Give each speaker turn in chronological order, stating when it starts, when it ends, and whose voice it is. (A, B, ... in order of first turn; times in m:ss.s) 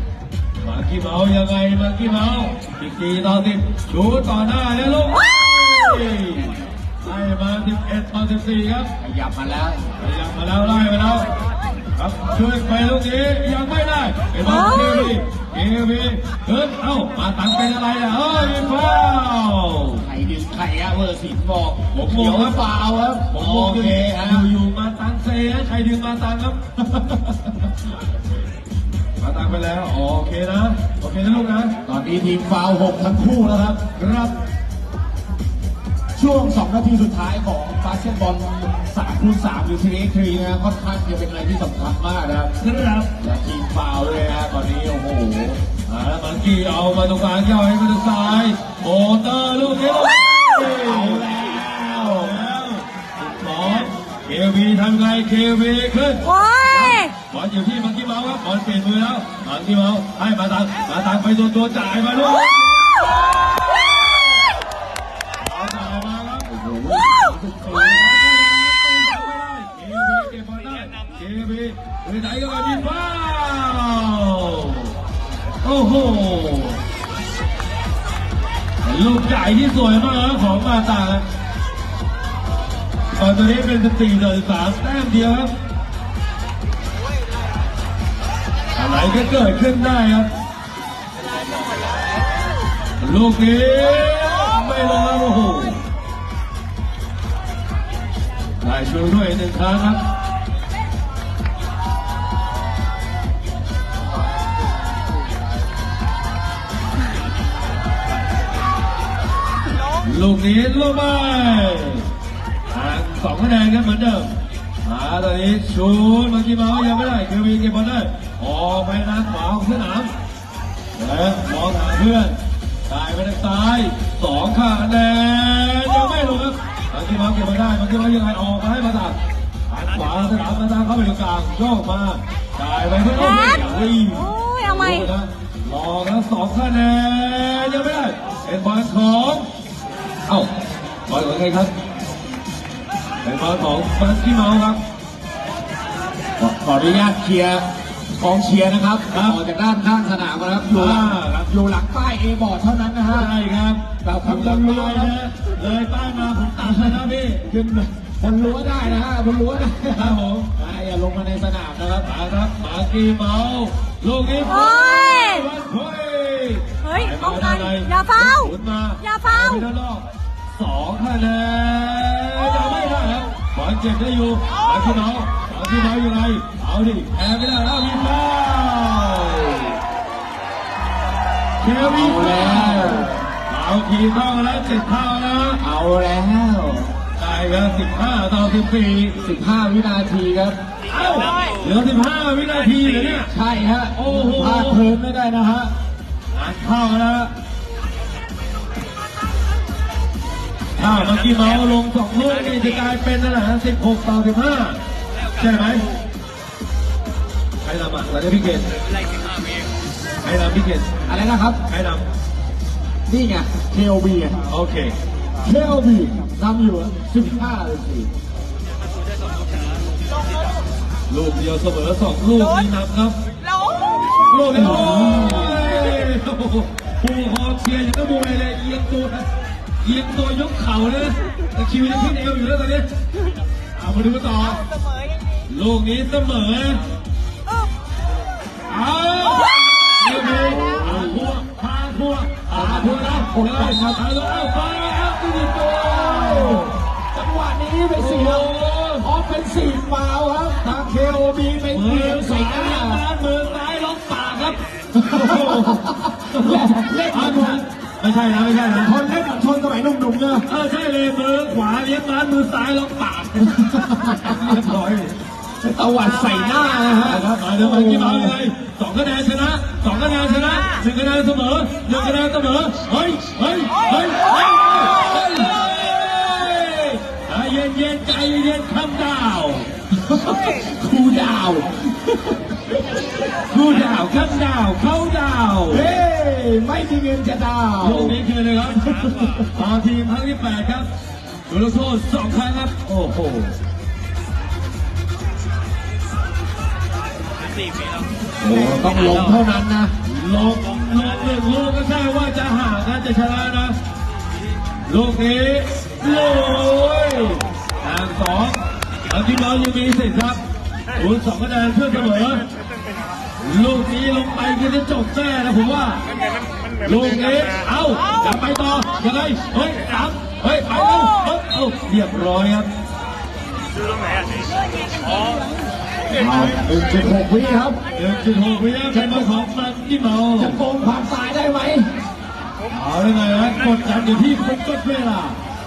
0:00.6-0:08.9 A
0:09.0-0:09.9 B
0:10.0-0:11.3 A
0:12.0-0:20.0 A
0:14.4-0:15.1 C
0:20.0-0:24.5 B
0:21.9-0:22.6 A
0:23.3-0:26.6 A
0:29.2-0:31.7 A
0:31.8-0:33.8 B
0:34.0-0:34.4 A
0:36.2-0:42.5 B
0:42.6-0:43.1 A
0:43.2-0:45.6 B
0:45.8-0:56.2 A
0:50.8-0:52.4 B
0:56.2-0:57.1 C
0:57.2-1:04.2 A
1:05.4-1:06.5 A
1:06.4-1:08.0 B
1:07.6-1:14.9 A
1:15.6-1:16.8 A
1:18.8-1:21.3 A
1:23.1-1:25.5 A
1:28.7-1:30.3 A
1:33.0-1:35.8 A
1:38.6-1:40.0 A
1:50.0-1:52.1 A
1:52.7-2:00.1 A
2:01.0-2:09.2 A
2:09.7-2:19.5 A
2:13.1-2:15.1 C
2:21.1-2:21.7 A
2:23.2-2:24.8 A
2:26.4-2:33.3 B
2:29.1-2:29.4 A
2:30.7-2:31.5 A
2:33.1-2:37.4 A
2:34.0-2:35.1 B
2:36.6-2:42.1 B
2:39.9-2:40.5 A
2:42.0-2:59.8 A
2:44.4-2:45.5 C
2:46.8-2:49.7 C
3:01.6-3:05.6 A
3:01.8-3:03.2 B
3:05.6-3:06.9 B
3:07.2-3:09.2 A
3:09.2-3:10.6 B
3:10.9-3:13.3 A
3:13.3-3:15.7 B
3:14.0-3:14.8 A
3:16.3-3:17.3 A
3:20.8-3:24.8 A
3:25.3-3:25.9 A
3:27.6-3:28.7 A
3:30.2-3:32.0 A
3:31.1-3:31.6 B
3:33.1-3:34.4 B
3:34.5-3:34.9 A
3:35.4-3:38.1 B
3:41.1-3:43.2 A
3:44.2-3:49.2 A
3:44.5-3:45.7 B
3:49.8-3:52.9 A
3:53.7-3:54.6 A
3:55.5-3:56.8 A
3:58.7-4:06.7 A
4:00.2-4:01.2 B
4:02.5-4:04.0 B
4:05.8-4:13.0 B
4:07.9-4:09.1 A
4:11.7-4:19.0 A
4:15.0-4:17.6 B
4:18.8-4:20.4 B
4:20.5-4:25.1 A
4:23.6-4:24.4 B
4:25.6-4:28.3 B
4:27.0-4:39.7 A
4:40.0-4:42.8 B
4:43.5-4:45.9 A
4:45.7-4:48.2 B
4:47.8-4:50.9 A
4:51.5-4:53.6 A
4:58.4-4:59.9 B
5:00.0-5:03.8 A
5:04.8-5:10.4 A
5:10.9-5:12.4 A
5:13.4-5:16.1 A
5:16.8-5:22.7 A
5:26.1-5:27.8 B
5:27.9-5:30.6 A
5:28.9-5:29.3 B
5:30.4-5:31.9 B
5:32.7-5:35.4 A